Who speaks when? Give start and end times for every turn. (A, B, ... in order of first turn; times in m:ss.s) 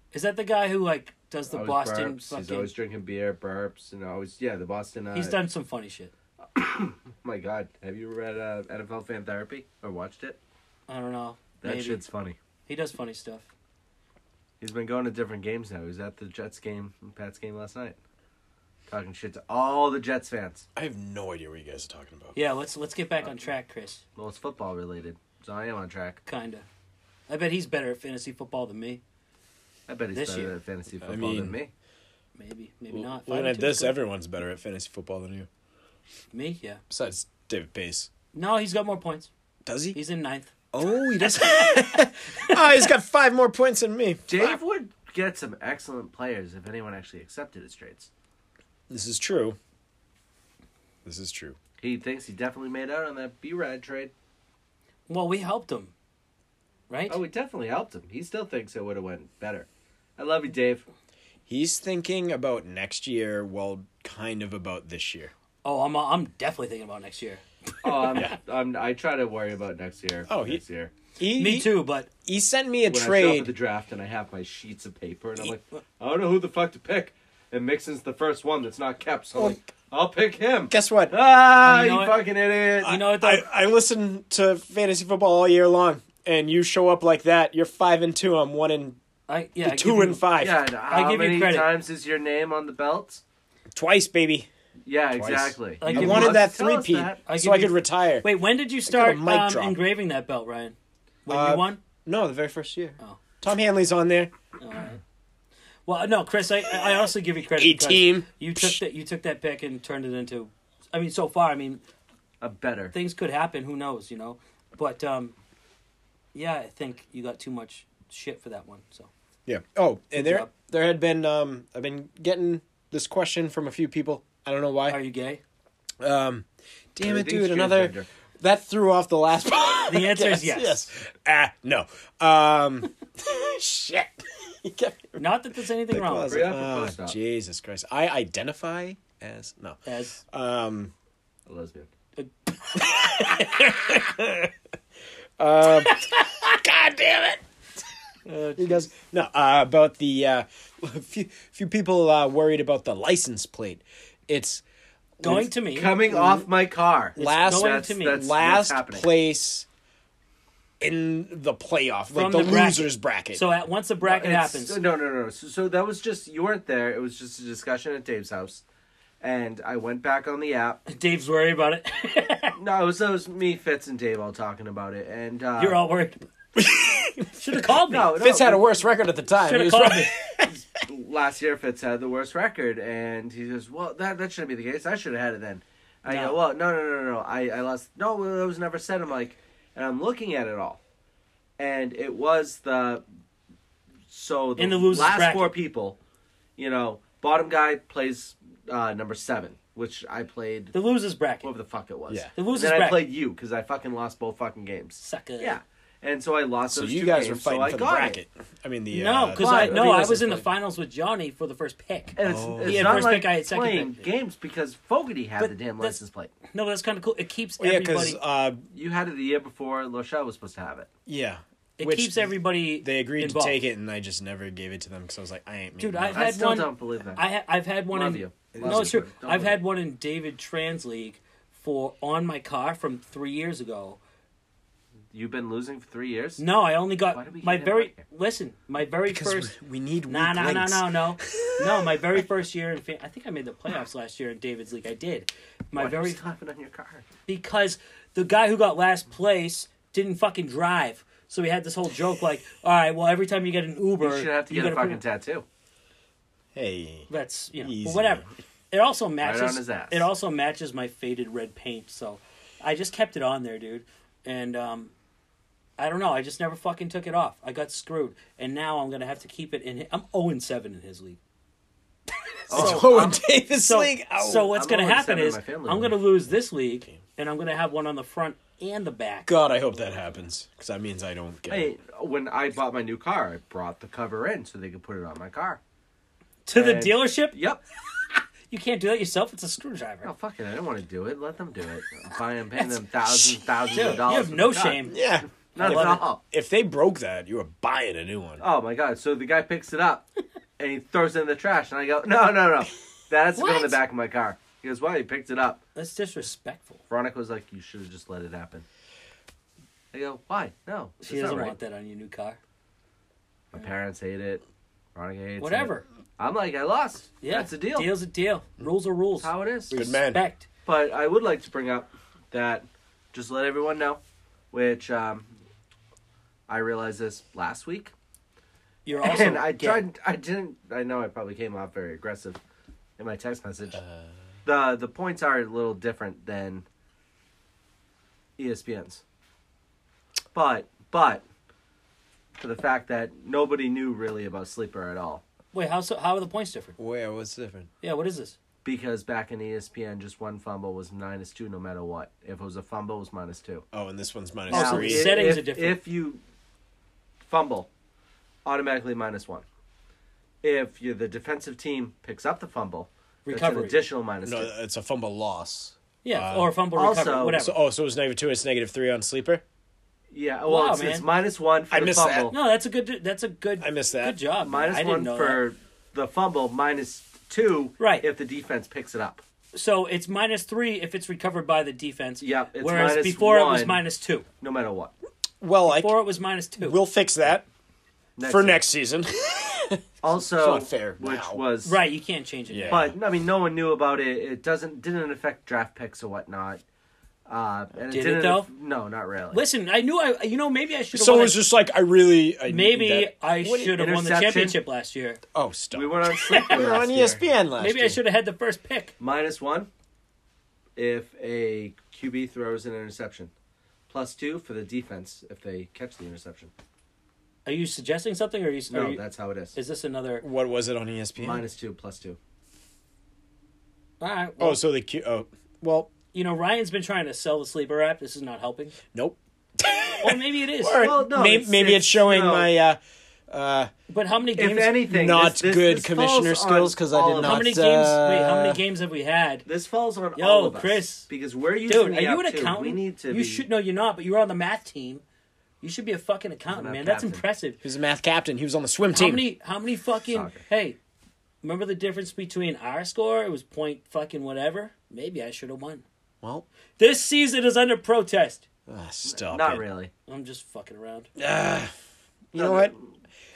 0:00.1-0:02.7 A
0:01.5-0:05.4 B
0:05.1-0:06.1 A
0:06.5-0:10.4 B
0:10.9-0:12.0 A
0:11.6-0:12.4 B
0:12.7-0:13.5 A
0:14.6-0:18.0 B
0:18.9-0:20.6 B
0:20.8-0:22.4 C
0:22.3-0:24.0 A
0:24.2-0:26.2 B
0:26.2-0:26.6 A
0:27.3-0:29.0 A
0:29.9-0:31.7 B
0:30.1-0:30.5 A
0:31.0-0:31.6 C
0:32.4-0:34.0 A
0:32.9-0:35.5 C
0:36.3-0:36.8 A
0:36.9-0:38.1 C
0:38.3-0:39.3 A
0:39.6-0:40.0 C
0:39.9-0:40.5 A
0:40.7-0:44.6 C
0:41.2-0:42.8 A
0:44.3-0:48.1 B
0:48.9-0:49.6 C
0:51.0-0:51.6 C
0:51.8-0:54.1 B
0:55.1-0:55.9 A
0:56.9-0:57.2 A
0:57.1-1:00.8 B
1:01.5-1:05.3 C
1:05.6-1:08.1 A
1:07.8-1:10.9 B
1:10.3-1:10.6 C
1:11.2-1:13.5 C
1:11.3-1:12.1 A
1:12.8-1:23.0 B
1:19.3-1:19.6 C
1:20.7-1:21.1 C
1:21.6-1:22.2 A
1:22.8-1:23.5 A
1:22.8-1:29.0 C
1:29.3-1:30.3 A
1:29.6-1:30.6 C
1:30.4-1:33.2 B
1:30.9-1:31.7 A
1:33.7-1:34.5 C
1:34.8-1:37.2 B
1:35.2-1:38.2 C
1:35.8-1:36.5 A
1:37.2-1:40.7 A
1:38.8-1:39.8 C
1:41.2-1:41.8 A
1:41.3-1:44.3 C
1:44.6-1:45.0 A
1:45.9-1:51.8 A
1:47.6-1:48.8 C
1:52.4-1:52.9 B
1:52.9-1:55.3 A
1:56.3-1:59.1 A
1:59.4-2:05.0 C
2:00.1-2:00.5 A
2:04.9-2:05.4 A
2:06.0-2:15.2 C
2:07.0-2:08.1 B
2:09.9-2:10.8 A
2:15.2-2:16.5 A
2:15.9-2:20.9 C
2:16.3-2:17.2 B
2:19.8-2:20.2 A
2:21.4-2:21.9 B
2:22.2-2:23.8 A
2:22.7-2:24.5 C
2:25.4-2:27.4 C
2:28.2-2:28.9 A
2:28.6-2:34.6 C
2:35.2-2:35.5 C
2:35.2-2:36.4 A
2:35.7-2:39.1 B
2:36.1-2:36.4 C
2:37.2-2:39.7 C
2:37.2-2:38.3 A
2:40.8-2:43.4 C
2:42.1-2:44.8 A
2:44.0-2:48.6 B
2:49.2-2:50.8 B
2:50.9-2:52.6 A
2:52.6-2:55.8 B
2:55.6-2:56.2 A
2:56.6-2:57.6 C
2:57.4-2:58.2 A
2:57.9-2:58.7 B
2:58.2-3:00.5 C
2:59.4-3:00.1 A
3:00.4-3:10.8 B
3:06.1-3:06.4 A
3:11.6-3:13.0 B
3:14.1-3:16.0 B
3:14.6-3:15.5 A
3:16.6-3:20.7 B
3:20.7-3:21.5 A
3:21.4-3:28.2 B
3:22.3-3:23.0 A
3:25.0-3:25.6 A
3:26.7-3:30.2 C
3:28.9-3:34.1 A
3:29.4-3:30.4 B
3:32.2-3:36.3 B
3:32.2-3:33.2 C
3:35.4-3:36.0 A
3:36.5-3:38.2 A
3:37.6-3:38.6 C
3:38.7-3:40.9 B
3:41.0-3:46.2 C
3:41.8-3:43.6 A
3:45.8-3:54.0 A
3:46.1-3:47.2 B
3:47.9-3:49.6 B
3:48.5-3:49.1 C
3:55.1-3:56.4 B
3:56.4-3:59.5 A
3:57.1-3:58.0 B
3:59.1-4:02.2 C
4:00.1-4:06.2 A
4:05.8-4:07.0 B
4:07.2-4:15.0 A
4:14.0-4:15.4 B
4:16.5-4:17.1 C
4:17.1-4:24.9 A
4:17.6-4:18.3 C
4:19.2-4:20.1 B
4:25.8-4:31.2 A
4:32.5-4:39.3 A
4:32.5-4:33.2 B
4:32.5-4:34.5 C
4:34.4-4:36.0 B
4:39.2-4:41.7 C
4:41.5-4:45.6 B
4:46.4-4:47.4 A
4:46.5-4:47.6 B
4:48.5-4:50.1 A
4:50.0-4:54.9 B
4:53.7-4:55.0 A
4:54.9-4:58.4 C
4:55.5-4:56.2 B
4:55.5-4:56.0 A
4:58.4-5:00.1 B
5:00.6-5:05.6 B
5:03.4-5:03.8 A
5:05.7-5:06.8 A
5:06.9-5:08.6 B
5:09.9-5:11.6 B
5:11.0-5:12.4 A
5:13.5-5:14.4 B
5:14.9-5:17.9 B
5:15.4-5:15.8 A
5:17.2-5:20.5 A
5:19.2-5:19.8 B
5:19.7-5:20.2 C
5:20.6-5:24.0 B
5:24.5-5:25.3 B
5:26.5-5:27.9 B
5:28.8-5:29.8 A
5:29.0-5:32.4 B
5:33.0-5:33.8 B
5:33.8-5:34.1 C
5:34.4-5:36.6 B
5:38.4-5:39.0 B
5:40.3-5:41.2 B
5:42.4-5:45.2 B
5:45.5-5:46.8 A
5:46.8-5:47.7 C
5:47.8-5:48.4 A
5:48.6-5:53.6 B
5:53.7-5:55.2 C
5:54.5-5:55.8 A
5:54.5-5:56.2 B
5:57.2-5:57.7 B
5:58.4-5:59.4 B
6:00.4-6:04.5 B
6:03.2-6:03.8 A
6:04.2-6:06.5 C
6:06.0-6:07.6 A
6:06.7-6:07.4 B
6:07.4-6:09.4 C
6:10.1-6:12.3 B
6:10.5-6:11.0 A
6:11.7-6:12.3 C
6:12.3-6:15.4 A
6:13.6-6:14.2 C
6:14.4-6:19.2 B
6:17.8-6:18.0 A
6:19.5-6:24.2 A
6:22.2-6:23.8 B
6:24.4-6:24.9 B
6:25.4-6:26.0 C
6:25.6-6:26.8 A
6:26.6-6:27.4 C
6:28.2-6:28.6 B
6:28.2-6:31.4 C
6:30.0-6:31.8 B
6:31.6-6:32.8 A
6:32.5-6:33.0 C
6:32.7-6:36.6 B
6:37.3-6:39.4 B
6:37.9-6:38.5 A
6:39.3-6:41.4 A
6:40.9-6:43.8 C
6:42.4-6:45.2 A
6:43.7-6:44.6 B
6:45.3-6:48.0 C
6:45.7-6:47.2 B
6:46.2-6:46.6 A
6:47.6-6:48.9 A
6:49.0-6:49.7 B
6:50.8-6:53.3 B
6:53.9-6:56.5 B
6:57.4-6:59.0 A
6:58.7-6:59.6 B
6:59.5-7:00.2 A
7:00.2-7:01.4 C
7:01.2-7:02.2 B
7:04.0-7:04.6 A
7:04.4-7:05.9 C
7:06.1-7:08.8 A
7:08.9-7:12.8 C
7:10.0-7:10.9 A
7:10.8-7:12.5 B
7:13.3-7:13.7 C
7:13.9-7:14.8 A
7:14.4-7:17.4 B
7:14.9-7:18.6 C
7:17.2-7:19.4 A
7:19.4-7:23.4 B
7:20.2-7:21.1 A
7:21.7-7:25.0 A
7:25.6-7:27.6 A
7:26.5-7:27.2 B
7:27.6-7:29.2 C
7:28.9-7:30.8 A
7:30.1-7:30.4 B
7:31.4-7:35.8 A
7:36.8-7:38.4 A
7:38.7-7:39.6 C
7:39.0-7:39.9 B
7:40.1-7:41.1 A
7:41.2-7:41.7 C
7:42.3-7:42.7 C
7:42.3-7:42.8 B